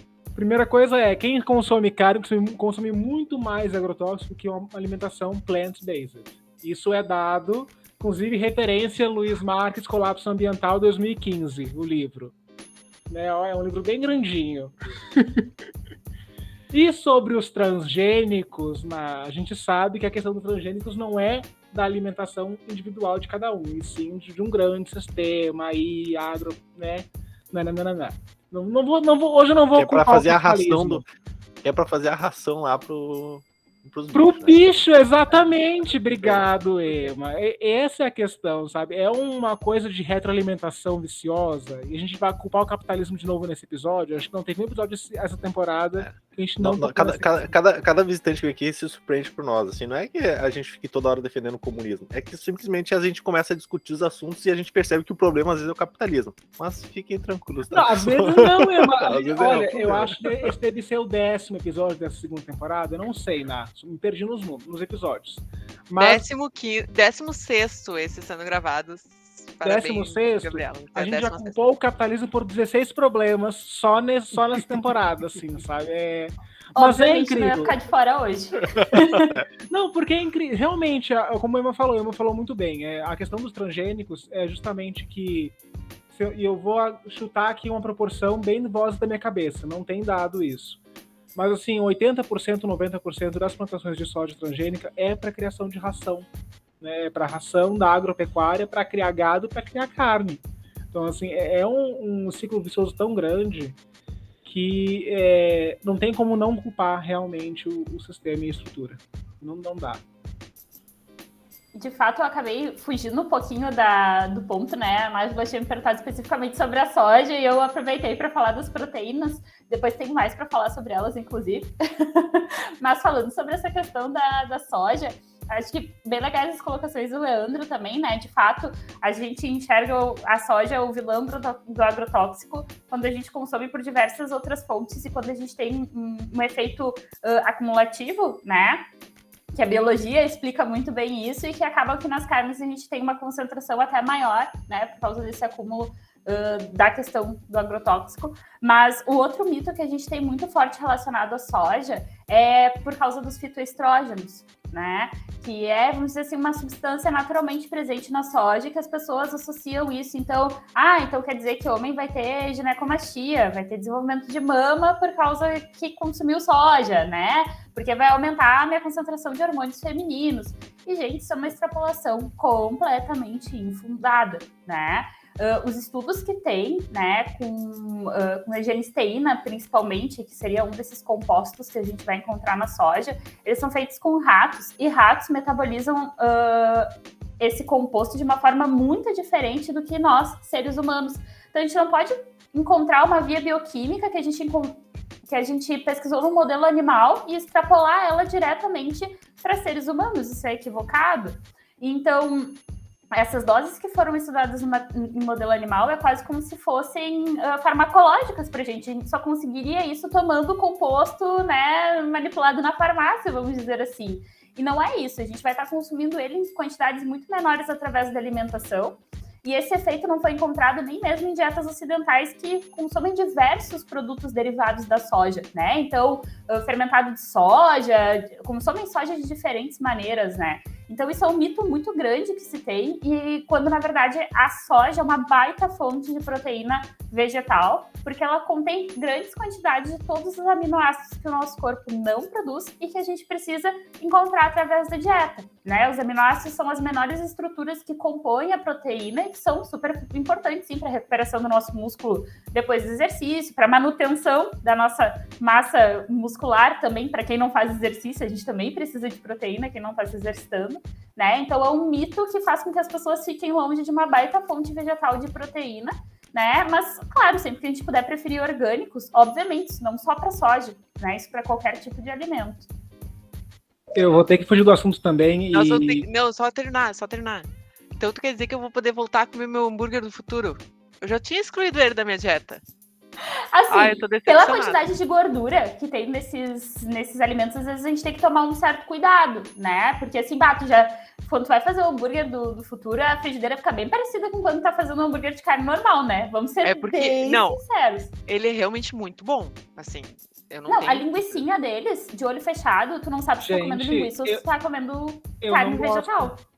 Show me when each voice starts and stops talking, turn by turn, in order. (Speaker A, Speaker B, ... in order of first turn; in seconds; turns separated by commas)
Speaker A: 0.3-12.3, Speaker A: 13.1-15.4, Speaker A: 16.7-31.0, Speaker B: 29.7-31.1, Speaker B: 31.6-37.1, Speaker A: 34.1-47.5, Speaker B: 46.0-60.5, Speaker A: 57.7-66.2, Speaker C: 66.0-71.5, Speaker A: 69.6-77.7, Speaker D: 76.7-79.4, Speaker B: 78.8-79.4, Speaker A: 79.7-85.5, Speaker A: 86.1-90.8, Speaker A: 91.3-96.3, Speaker A: 96.8-103.8, Speaker A: 104.4-110.0, Speaker D: 111.7-138.8, Speaker D: 139.5-186.9, Speaker D: 187.4-202.6, Speaker D: 203.1-272.7, Speaker A: 273.9-276.0, Speaker C: 275.5-282.6, Speaker D: 283.5-298.1, Speaker C: 283.7-284.8, Speaker C: 296.6-297.6, Speaker C: 298.3-301.4, Speaker D: 300.7-306.4, Speaker A: 303.4-304.4, Speaker A: 305.4-306.3